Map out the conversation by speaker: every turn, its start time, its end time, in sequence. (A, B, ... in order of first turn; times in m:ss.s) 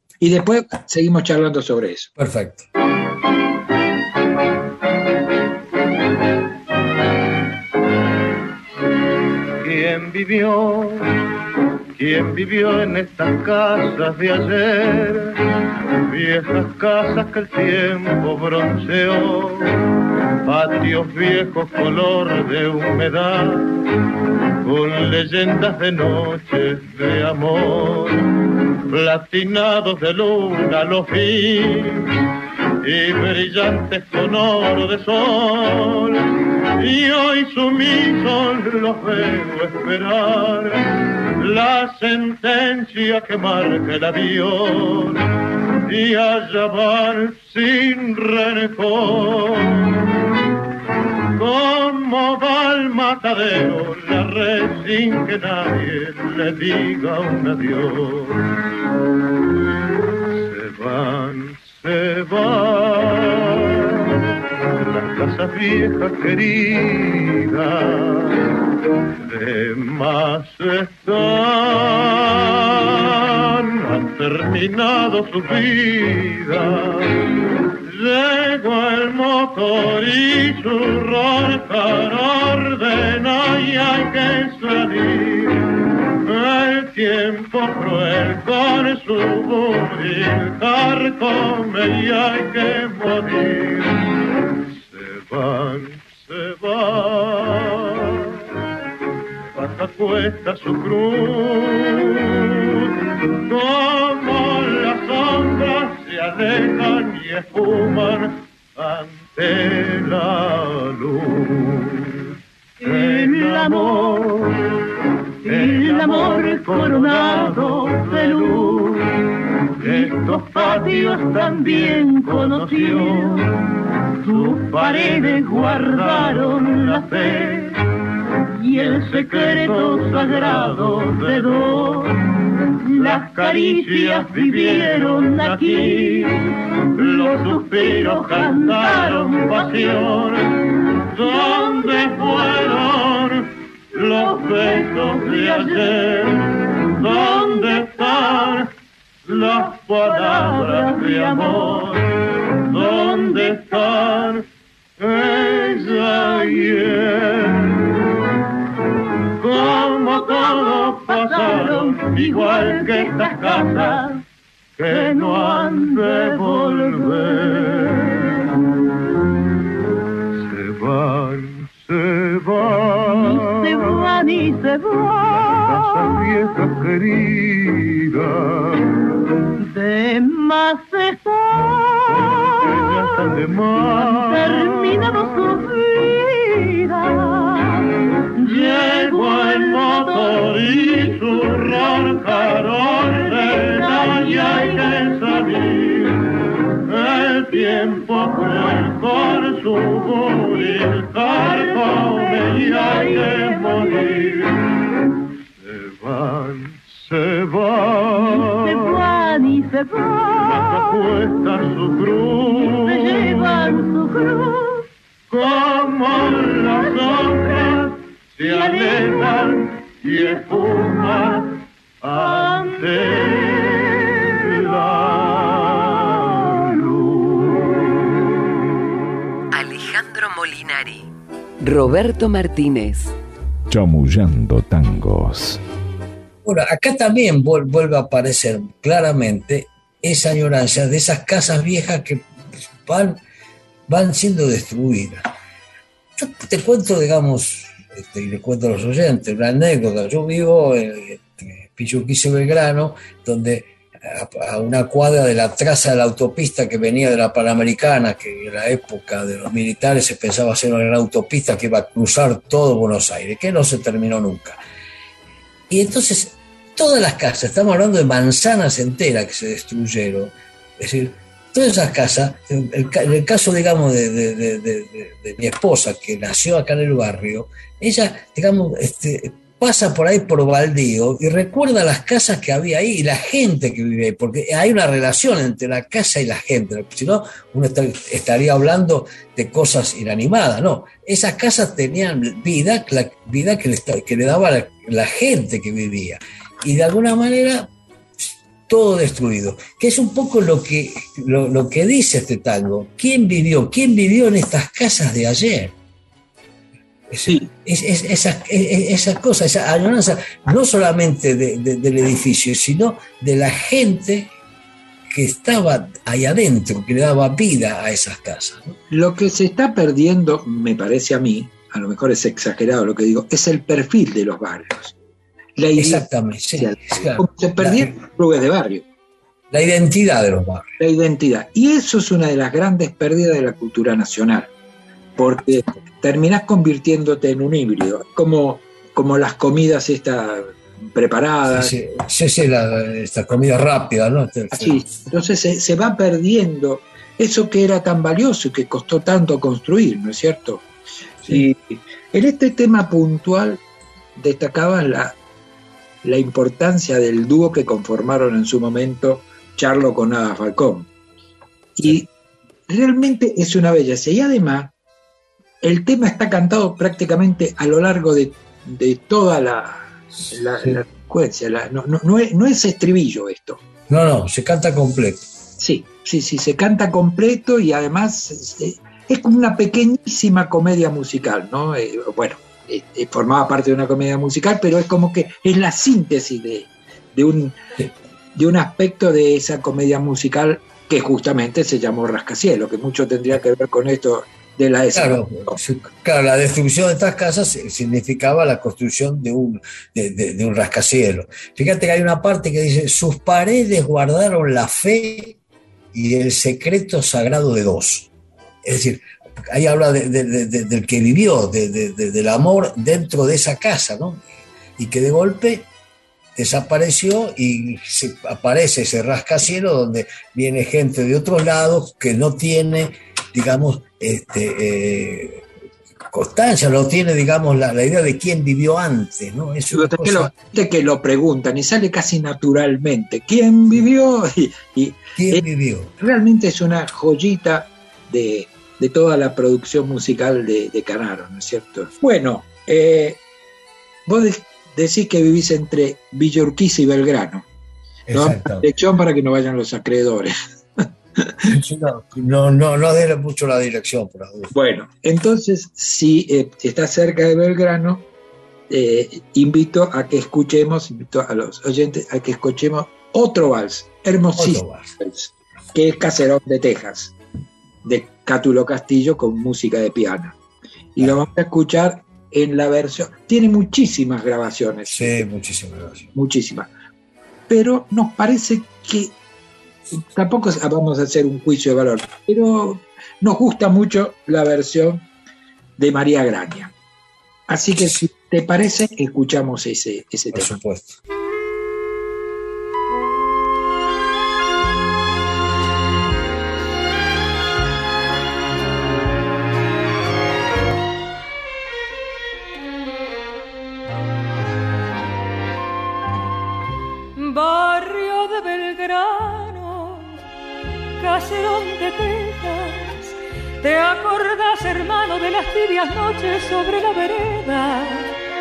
0:00.2-0:02.1 A
0:02.2-0:02.6 B
0:09.6-0:11.2 C
0:12.0-0:15.4 C
0:16.1-0:19.8 C
0:20.4-0:23.7 C
0:24.6-0:28.3 C
0:28.9-0:32.2 C
0:32.8-0:45.3 C
0:45.9-0:50.0 C
0:51.4-0:58.4 C
1:00.3-1:04.1 C
1:04.7-1:08.4 C
1:09.2-1:34.1 C
1:34.6-1:38.4 C
1:39.5-1:42.9 C
1:43.4-1:54.8 C
1:52.8-1:54.4 D
1:55.4-1:59.0 C
1:55.4-1:59.0 D
1:59.8-2:07.8 C
1:59.8-2:03.6 D
2:04.2-2:07.7 D
2:08.5-2:12.2 D
2:08.7-2:12.2 C
2:12.8-2:20.4 D
2:12.9-2:28.7 C
2:21.1-2:23.0 D
2:23.9-2:26.3 D
2:27.0-2:28.6 D
2:29.2-2:34.4 C
2:29.3-2:32.0 D
2:32.6-2:34.4 D
2:35.0-2:37.9 C
2:35.8-2:36.9 D
2:39.4-2:44.0 C
2:39.6-2:44.2 D
2:44.8-2:48.4 C
2:44.8-2:48.3 D
2:50.4-2:54.0 C
2:53.1-2:56.1 D
2:55.3-2:58.8 C
2:59.6-3:02.8 D
3:02.1-3:05.6 C
3:03.8-3:16.2 D
3:08.4-3:24.9 C
3:17.1-3:19.6 D
3:20.1-3:24.6 D
3:25.6-3:29.0 C
3:28.1-3:31.3 D
3:30.4-3:33.8 C
3:32.4-3:34.8 D
3:35.3-3:48.0 C
3:36.6-3:40.8 D
3:42.1-3:43.7 D
3:49.5-3:51.1 E
3:51.6-3:53.1 E
3:53.7-3:55.6 F
3:56.4-4:02.2 B
4:02.8-4:03.2 B
4:03.9-4:05.2 B
4:06.2-4:24.6 B
4:25.7-5:05.7 B
5:07.1-5:14.3 B
5:15.1-5:18.8 B
5:18.9-5:24.9 A
5:25.6-5:26.0 A
5:25.8-5:27.9 B
5:26.6-5:28.8 A
5:29.5-5:30.7 B
5:30.8-5:34.5 A
5:35.2-5:41.7 A
5:41.5-5:44.9 B
5:44.5-5:50.6 A
5:51.3-5:53.6 A
5:54.2-5:55.2 A
5:56.0-6:00.9 A
6:01.8-6:02.1 A
6:02.7-6:04.7 A
6:05.6-6:13.6 A
6:13.9-6:15.2 B
6:15.6-6:27.6 A
6:28.3-6:35.6 A
6:34.9-6:45.4 B
6:45.9-6:48.1 B
6:48.6-6:54.2 B
6:54.8-6:55.7 B
6:56.3-7:05.4 B
7:06.1-7:10.3 B
7:09.7-7:15.4 A
7:15.2-7:15.9 B
7:16.0-7:23.2 A
7:24.1-7:27.4 A
7:28.1-7:28.7 B
7:28.1-7:31.5 A
7:31.5-7:34.5 B
7:34.5-7:38.0 A
7:38.7-7:47.2 A
7:44.3-7:44.9 B
7:47.8-7:50.4 A
7:51.0-7:55.2 A
7:51.0-7:51.3 B
7:54.9-7:56.1 B
7:56.1-7:56.7 A
7:57.5-7:59.1 A
7:59.9-8:05.1 A
8:05.8-8:06.7 A
8:07.5-8:10.6 A
8:10.3-8:11.0 B
8:27.2-8:30.2 G
8:31.0-8:38.1 G